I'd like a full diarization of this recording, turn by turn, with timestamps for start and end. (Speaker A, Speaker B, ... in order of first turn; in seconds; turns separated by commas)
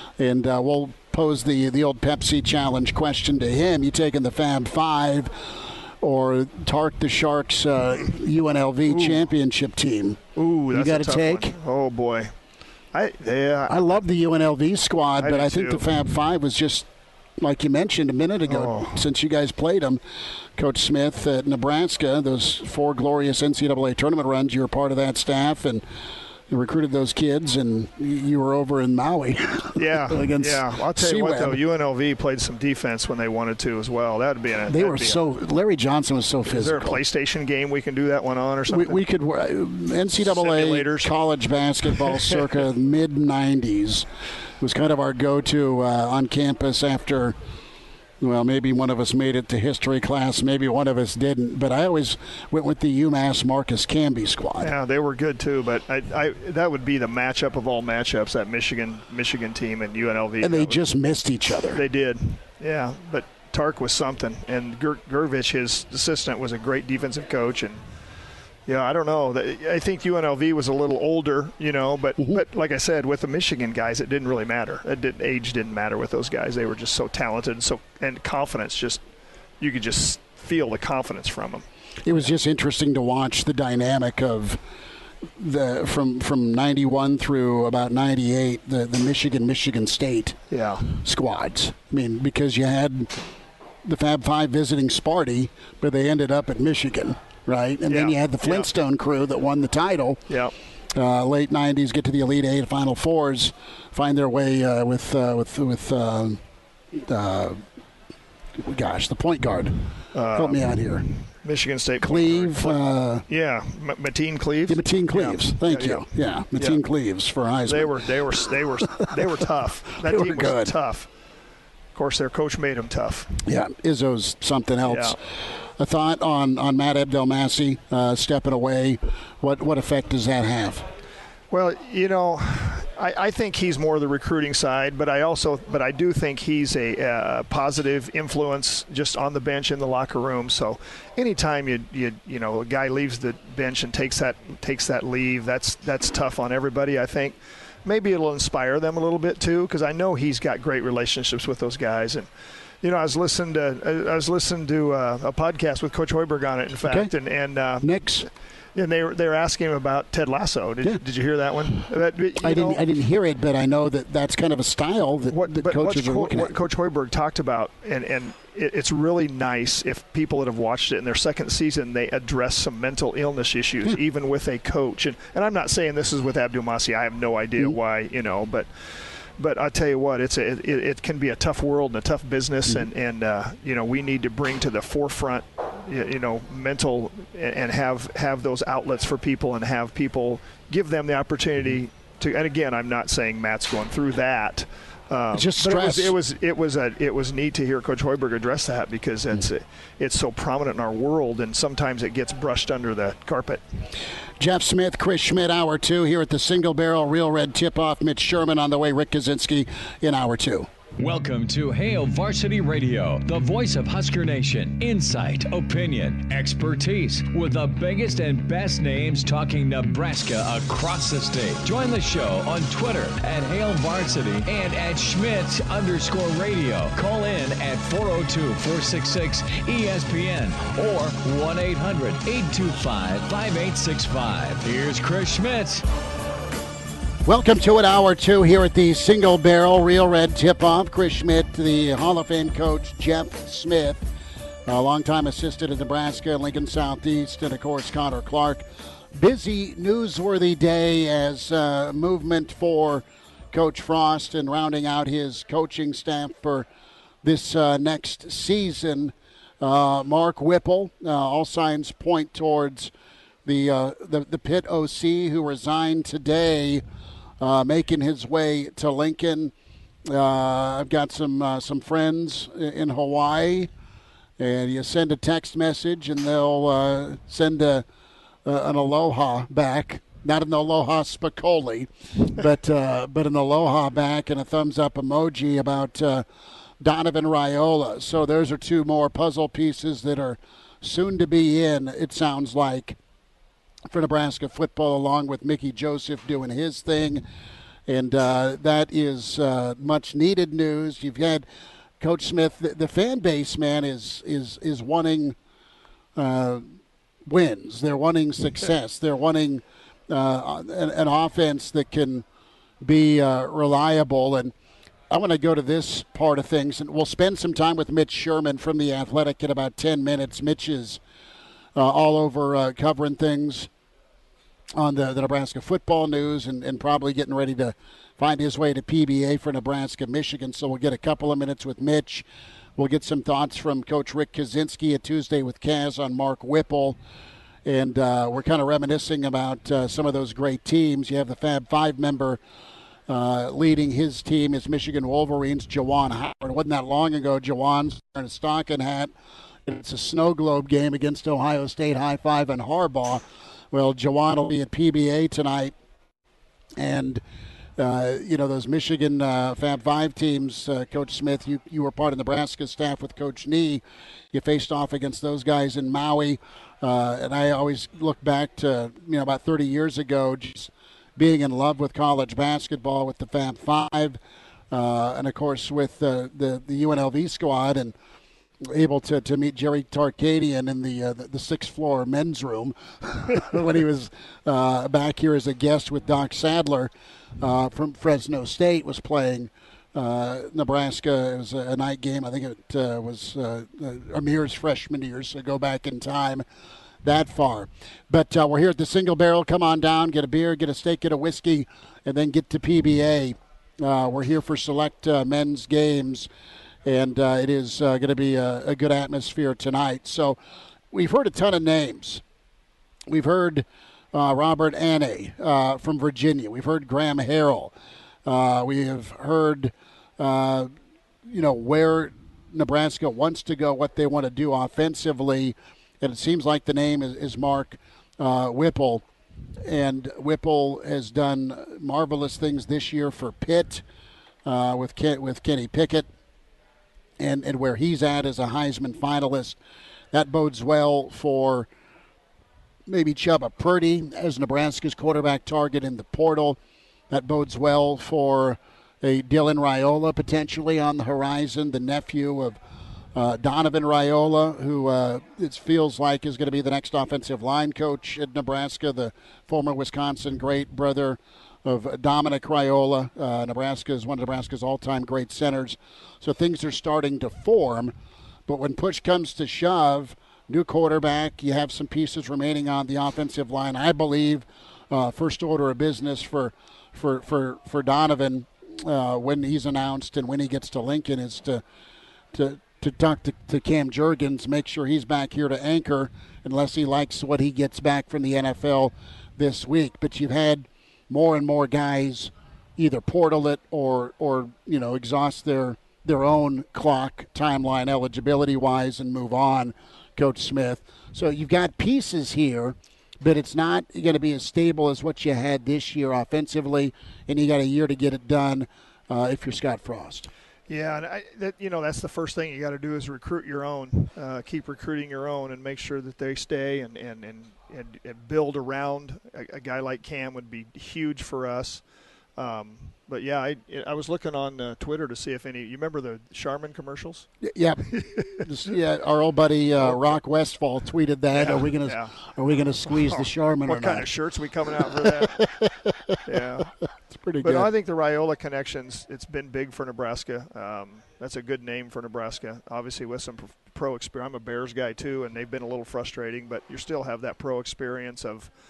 Speaker A: 0.2-11.6, Speaker B: 8.9-9.2, Speaker B: 10.4-12.3, Speaker B: 12.9-13.9, Speaker A: 13.7-16.9, Speaker B: 15.2-15.9, Speaker A: 17.4-20.0, Speaker B: 18.5-19.0, Speaker A: 20.6-25.8, Speaker A: 26.5-31.6, Speaker B: 29.8-35.2, Speaker A: 34.7-37.0, Speaker B: 36.5-39.0, Speaker A: 38.7-44.1, Speaker B: 40.2-41.1, Speaker B: 42.0-42.3, Speaker A: 44.6-47.4, Speaker A: 48.2-54.7, Speaker B: 54.6-60.8, Speaker A: 60.4-61.8, Speaker B: 61.7-67.9, Speaker B: 68.7-79.0, Speaker B: 79.6-81.7, Speaker A: 82.0-84.6, Speaker A: 85.4-90.4, Speaker B: 90.5-91.0, Speaker A: 90.9-93.1, Speaker A: 93.8-100.2, Speaker B: 97.9-98.7, Speaker B: 100.3-100.5, Speaker A: 100.9-106.4, Speaker A: 106.9-107.6, Speaker A: 108.6-109.8, Speaker B: 110.1-116.8, Speaker A: 110.3-111.1, Speaker A: 112.0-113.2, Speaker A: 114.7-118.1, Speaker B: 117.7-121.1, Speaker A: 120.0-120.7, Speaker B: 121.9-123.4, Speaker A: 123.4-130.9, Speaker B: 124.8-125.2, Speaker B: 131.5-152.3, Speaker B: 152.8-157.9, Speaker A: 156.9-157.1, Speaker A: 157.8-158.3, Speaker B: 158.8-162.8, Speaker A: 162.4-166.6, Speaker B: 165.3-203.6, Speaker A: 195.3-196.1, Speaker A: 204.4-210.7, Speaker C: 211.0-235.9, Speaker A: 237.2-244.0, Speaker A: 244.7-256.7, Speaker A: 257.2-262.9, Speaker A: 263.4-266.8, Speaker A: 267.4-269.5, Speaker A: 270.1-273.7, Speaker A: 274.4-277.9, Speaker A: 278.4-286.3, Speaker A: 286.8-293.0, Speaker A: 293.9-297.2, Speaker A: 297.9-301.5, Speaker A: 302.0-305.4, Speaker A: 306.2-306.7, Speaker A: 307.3-312.2, Speaker A: 312.8-314.5, Speaker A: 315.1-321.0, Speaker A: 321.8-323.7, Speaker A: 324.8-337.0, Speaker A: 337.6-342.4, Speaker A: 343.1-349.1, Speaker A: 349.7-355.7, Speaker A: 356.8-357.2, Speaker A: 357.8-374.2, Speaker A: 374.7-377.9, Speaker A: 378.6-396.4, Speaker A: 397.0-406.3, Speaker A: 406.9-410.4, Speaker A: 410.9-412.2, Speaker A: 413.1-417.7, Speaker A: 418.2-420.7, Speaker A: 421.3-429.1, Speaker A: 429.6-433.9, Speaker A: 434.5-436.1, Speaker A: 437.2-439.6, Speaker A: 440.1-441.7, Speaker A: 442.9-446.6, Speaker A: 447.1-452.6, Speaker A: 453.1-467.9, Speaker A: 468.5-481.6, Speaker A: 482.3-510.3, Speaker B: 510.7-521.9, Speaker B: 522.4-527.3, Speaker A: 527.4-534.1, Speaker B: 528.0-528.4, Speaker B: 531.3-532.2, Speaker B: 532.9-535.5, Speaker A: 535.0-536.2, Speaker B: 536.2-536.7, Speaker A: 537.1-537.7, Speaker B: 537.4-548.5